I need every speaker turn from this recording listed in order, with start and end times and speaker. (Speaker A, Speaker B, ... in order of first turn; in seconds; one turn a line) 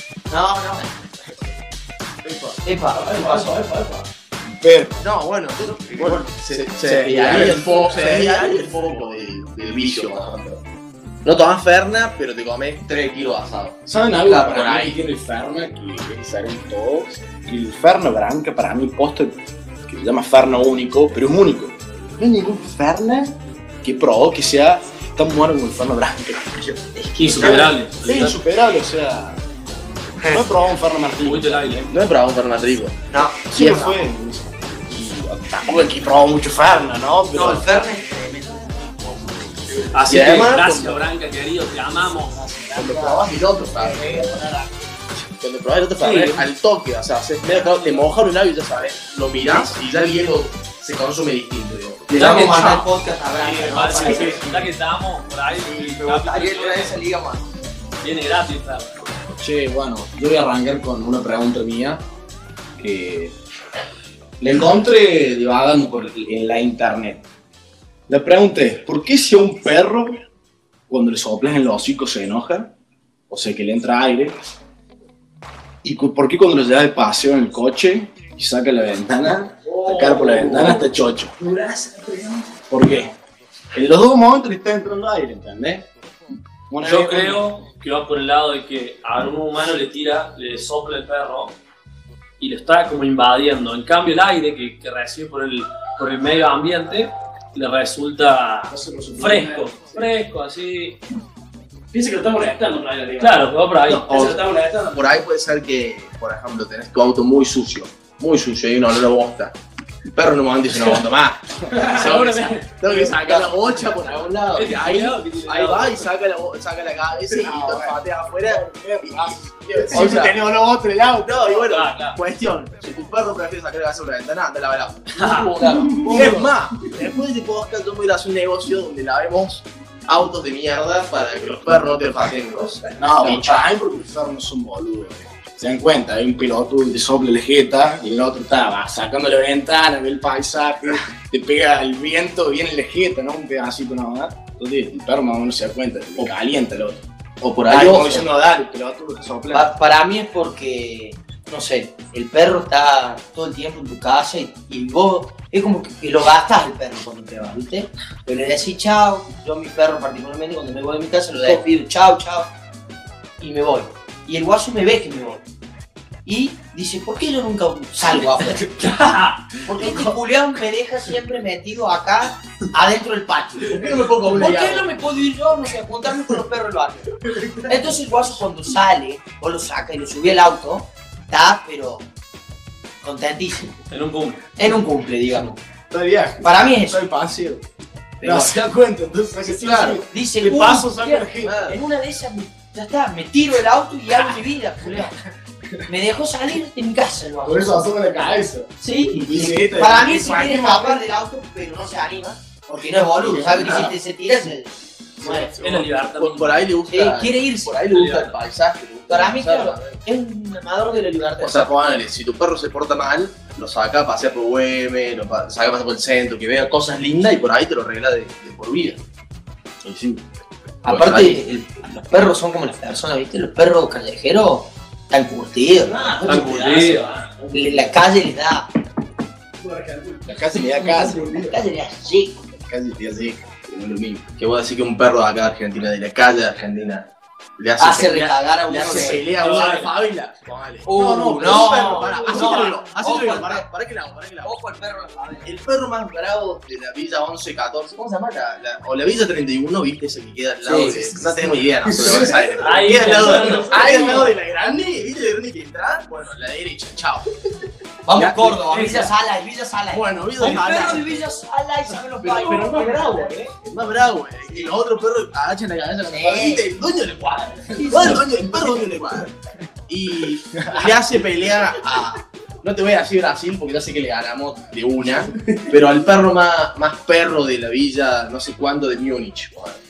Speaker A: 0.3-0.8
Speaker B: 2.2-2.6
Speaker A: 2.6-3.5
Speaker C: 2.9-4.1
Speaker D: 4.5-5.0
Speaker B: 5.0-10.4
Speaker D: 5.8-10.6
Speaker C: 7.2-8.4
Speaker B: 11.2-15.0
Speaker D: 13.8-29.4
Speaker E: 27.1-28.4
Speaker A: 27.2-27.7
Speaker D: 30.2-32.0
Speaker E: 31.2-31.8
Speaker B: 31.9-33.0
Speaker A: 33.1-34.0
Speaker D: 33.5-37.8
Speaker A: 37.3-39.1
Speaker E: 39.9-42.5
Speaker B: 40.1-41.1
Speaker D: 42.2-44.8
Speaker B: 42.7-44.2
Speaker B: 45.2-52.1
Speaker E: 46.0-46.5
Speaker D: 49.4-49.7
Speaker A: 52.1-54.4
Speaker E: 52.1-52.9
Speaker B: 53.4-54.4
Speaker E: 53.5-57.0
Speaker D: 54.1-54.5
Speaker A: 55.6-57.6
Speaker E: 58.0-59.0
Speaker D: 59.4-62.0
Speaker D: 62.8-63.4
Speaker D: 64.4-67.2
Speaker D: 68.1-70.2
Speaker D: 70.9-72.7
Speaker D: 73.3-74.4
Speaker D: 75.8-81.3
Speaker C: 79.6-82.6
Speaker D: 82.7-83.1
Speaker D: 83.7-85.9
Speaker D: 86.7-87.5
Speaker E: 86.8-91.6
Speaker E: 92.4-101.0
Speaker D: 98.7-100.0
Speaker C: 101.9-105.0
Speaker E: 103.2-104.3
Speaker B: 104.0-109.5
Speaker B: 110.1-119.2
Speaker E: 111.8-112.7
Speaker E: 114.5-116.1
Speaker D: 117.3-121.7
Speaker B: 119.9-120.4
Speaker B: 121.2-133.6
Speaker E: 121.6-122.2
Speaker E: 125.2-125.5
Speaker C: 125.9-126.2
Speaker D: 126.0-126.5
Speaker D: 132.9-147.0
Speaker B: 147.4-148.2
Speaker D: 147.7-149.7
Speaker A: 149.5-162.5
Speaker A: 163.4-165.4
Speaker A: 166.2-177.1
Speaker E: 168.8-169.4
Speaker B: 169.9-170.1
Speaker B: 173.6-174.9
Speaker A: 177.6-182.0
Speaker A: 183.0-183.7
Speaker E: 183.9-184.4
Speaker A: 184.6-185.6
Speaker D: 185.9-187.6
Speaker A: 186.4-187.0
Speaker B: 188.2-188.6
Speaker D: 188.2-191.7
Speaker B: 189.4-190.0
Speaker A: 190.1-195.1
Speaker B: 191.4-191.8
Speaker A: 195.8-197.8
Speaker D: 197.4-201.0
Speaker A: 198.8-205.5
Speaker D: 203.2-203.9
Speaker D: 205.2-205.8
Speaker B: 205.6-210.0
Speaker E: 205.6-206.7
Speaker A: 206.9-207.7
Speaker E: 207.9-208.3
Speaker A: 209.1-212.0
Speaker B: 211.0-219.0
Speaker D: 219.8-220.2
Speaker A: 220.8-225.9
Speaker B: 220.8-221.4
Speaker C: 225.7-228.0
Speaker E: 226.2-227.1
Speaker A: 227.5-228.7
Speaker C: 229.6-231.5
Speaker D: 230.2-231.4
Speaker A: 230.6-232.4
Speaker D: 232.6-234.2
Speaker B: 234.4-244.6
Speaker A: 237.8-239.2
Speaker E: 239.3-239.9
Speaker A: 240.8-243.7
Speaker D: 241.2-241.6
Speaker C: 241.8-242.4
Speaker A: 244.4-245.5
Speaker B: 245.4-257.2
Speaker A: 250.6-250.9
Speaker C: 251.9-254.3
Speaker E: 252.6-254.3
Speaker A: 258.0-263.4
Speaker D: 258.1-258.7
Speaker E: 258.7-259.0
Speaker B: 259.9-261.1
Speaker B: 262.2-262.9
Speaker D: 262.3-263.5
Speaker C: 262.5-263.3
Speaker B: 263.5-269.3
Speaker A: 266.1-266.7
Speaker A: 267.8-268.2
Speaker B: 269.9-279.8
Speaker D: 270.5-271.1